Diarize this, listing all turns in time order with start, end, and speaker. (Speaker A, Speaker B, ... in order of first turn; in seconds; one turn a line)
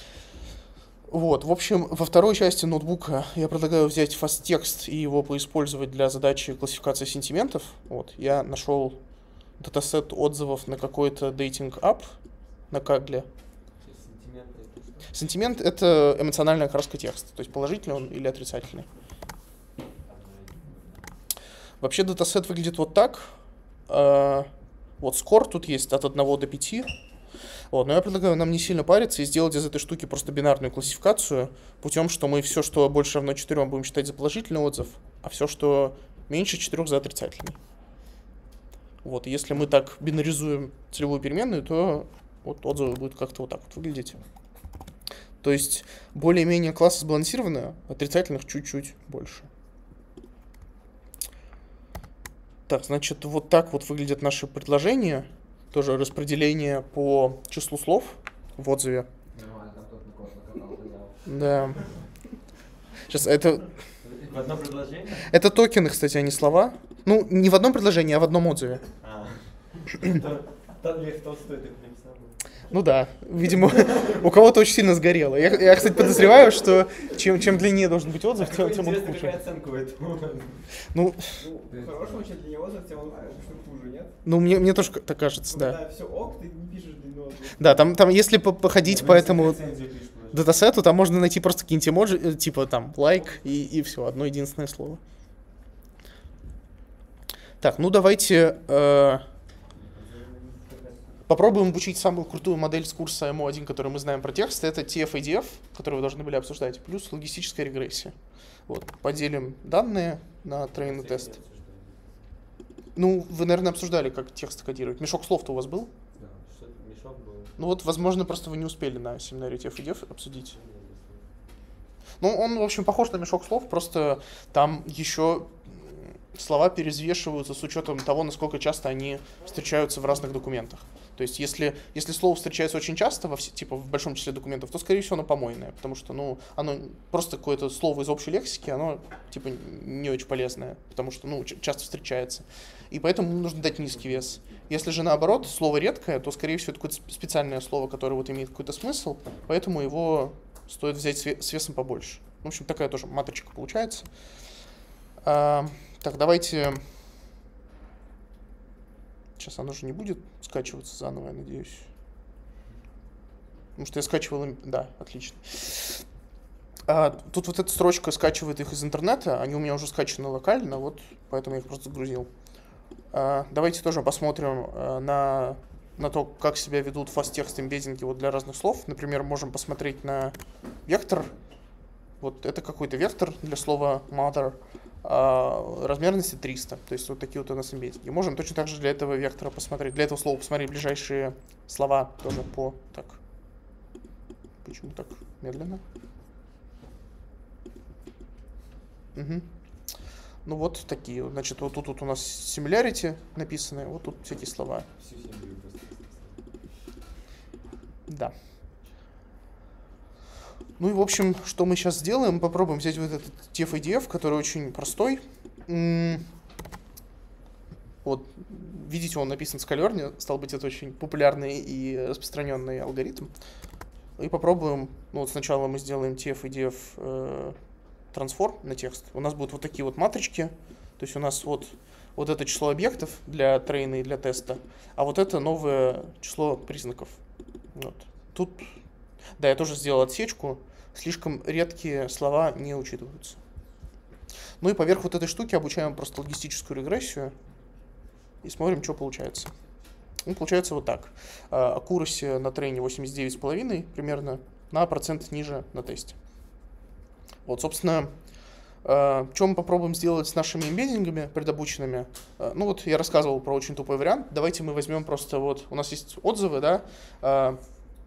Speaker A: 1.1-9.0
Speaker A: 9.6-12.2
Speaker A: 12.7-13.3
Speaker B: 13.8-15.1
Speaker A: 15.1-18.9
Speaker B: 20.0-21.1
Speaker A: 21.8-23.4
Speaker A: 23.9-26.9
Speaker A: 27.7-37.6
Speaker A: 39.0-44.2
Speaker A: 45.4-49.5
Speaker A: 52.7-59.1
Speaker C: 59.3-61.8
Speaker A: 61.2-61.8
Speaker A: 63.1-63.7
Speaker B: 64.0-65.3
Speaker A: 65.2-68.8
Speaker B: 69.0-72.5
Speaker A: 72.7-79.3
Speaker B: 75.7-76.4
Speaker B: 78.3-80.6
Speaker A: 80.9-81.4
Speaker D: 81.3-84.2
Speaker C: 81.7-82.3
Speaker A: 84.2-85.8
Speaker D: 85.5-88.0
Speaker A: 87.6-89.6
Speaker B: 88.8-90.7
Speaker A: 90.3-95.0
Speaker A: 97.6-99.2
Speaker B: 99.7-101.2
Speaker A: 101.3-108.2
Speaker A: 108.7-111.3
Speaker B: 110.7-112.4
Speaker A: 113.0-115.9
Speaker C: 116.2-116.4
Speaker B: 116.4-117.5
Speaker A: 117.6-120.5
Speaker B: 120.5-121.4
Speaker A: 122.2-154.1
Speaker A: 155.2-156.8
Speaker A: 159.4-161.9
Speaker A: 163.8-166.0
Speaker A: 166.9-172.3
Speaker A: 173.1-181.3
Speaker A: 182.2-193.2
Speaker A: 194.6-195.8
Speaker A: 199.1-199.5
Speaker A: 200.4-204.8
Speaker B: 205.0-206.4
Speaker A: 208.1-208.3
Speaker A: 210.8-216.2
Speaker A: 218.0-223.3
Speaker A: 224.2-227.6
Speaker A: 228.1-237.2
Speaker A: 237.7-238.7
Speaker A: 239.4-243.4
Speaker A: 244.6-247.3
Speaker A: 248.4-249.5
Speaker A: 250.2-256.1
Speaker A: 257.4-258.1
Speaker A: 258.8-267.6